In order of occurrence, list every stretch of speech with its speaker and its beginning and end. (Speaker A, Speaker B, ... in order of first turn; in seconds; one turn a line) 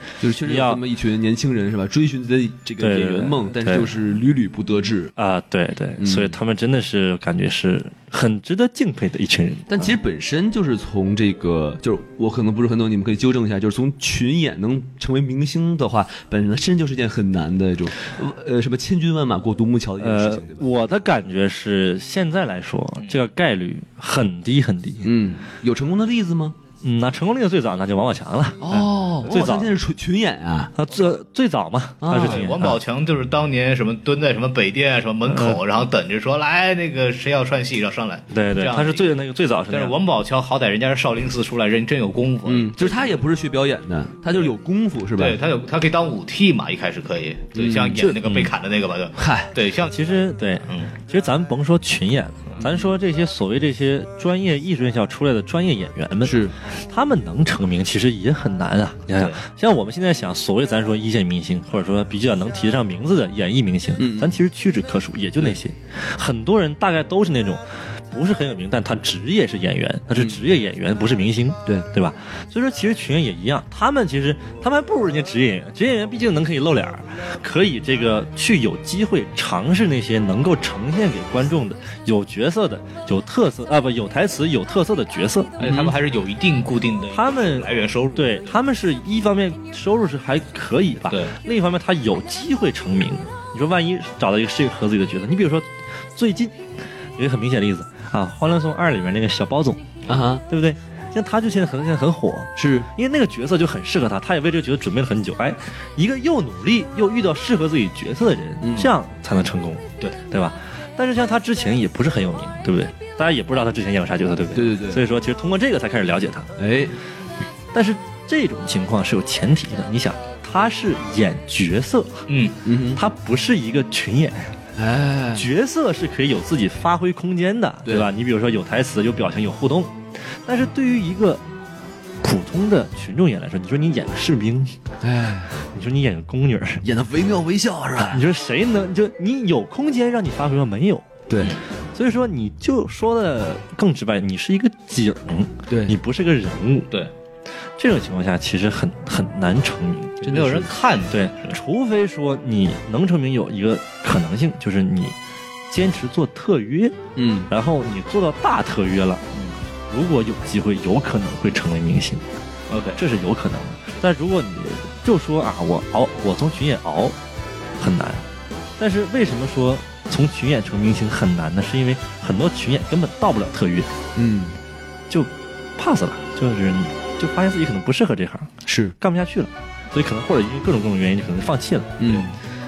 Speaker A: 0.2-5.1
Speaker B: 0.4-0.8
Speaker B: 2.8-3.9
Speaker B: 5.2-10.0
Speaker A: 6.0-6.3
Speaker A: 9.7-20.6
Speaker B: 20.0-25.1
Speaker C: 23.0-23.2
Speaker A: 25.0-26.6
Speaker B: 26.8-29.7
Speaker A: 28.6-30.7
Speaker B: 30.8-32.8
Speaker A: 32.0-32.5
Speaker C: 32.2-39.1
Speaker B: 35.3-35.6
Speaker B: 38.3-40.0
Speaker C: 39.7-43.2
Speaker A: 42.5-45.4
Speaker C: 45.1-50.0
Speaker A: 47.5-48.2
Speaker B: 48.2-48.5
Speaker A: 49.2-49.5
Speaker B: 49.8-85.5
Speaker C: 50.7-50.9
Speaker A: 56.2-56.5
Speaker C: 59.1-59.4
Speaker A: 64.0-64.4
Speaker A: 70.2-70.4
Speaker C: 85.6-88.4
Speaker A: 85.6-85.9
Speaker B: 87.1-96.6
Speaker B: 97.2-99.8
Speaker A: 100.1-100.4
Speaker B: 100.5-116.5
Speaker A: 102.6-102.9
Speaker A: 108.6-108.9
Speaker A: 114.5-115.0
Speaker A: 116.6-117.0
Speaker B: 117.7-122.3
Speaker C: 122.3-122.5
Speaker A: 122.6-123.0
Speaker B: 122.9-124.6
Speaker A: 124.8-125.5
Speaker B: 125.3-131.4
Speaker B: 132.2-134.8
Speaker A: 135.0-135.5
Speaker B: 135.7-136.8
Speaker A: 136.8-138.2
Speaker B: 138.0-141.2
Speaker A: 141.3-141.6
Speaker B: 141.9-146.9
Speaker A: 145.7-145.9
Speaker B: 147.8-150.4
Speaker C: 150.2-151.6
Speaker A: 150.3-150.7
Speaker B: 151.1-155.2
Speaker B: 155.7-159.2
Speaker A: 157.2-157.5
Speaker C: 159.3-159.6
Speaker B: 159.9-162.2
Speaker C: 162.7-163.0
Speaker B: 162.9-167.2
Speaker B: 167.8-168.2
Speaker B: 168.8-173.9
Speaker A: 174.2-174.6
Speaker B: 175.1-182.3
Speaker A: 178.7-178.9
Speaker A: 182.0-182.3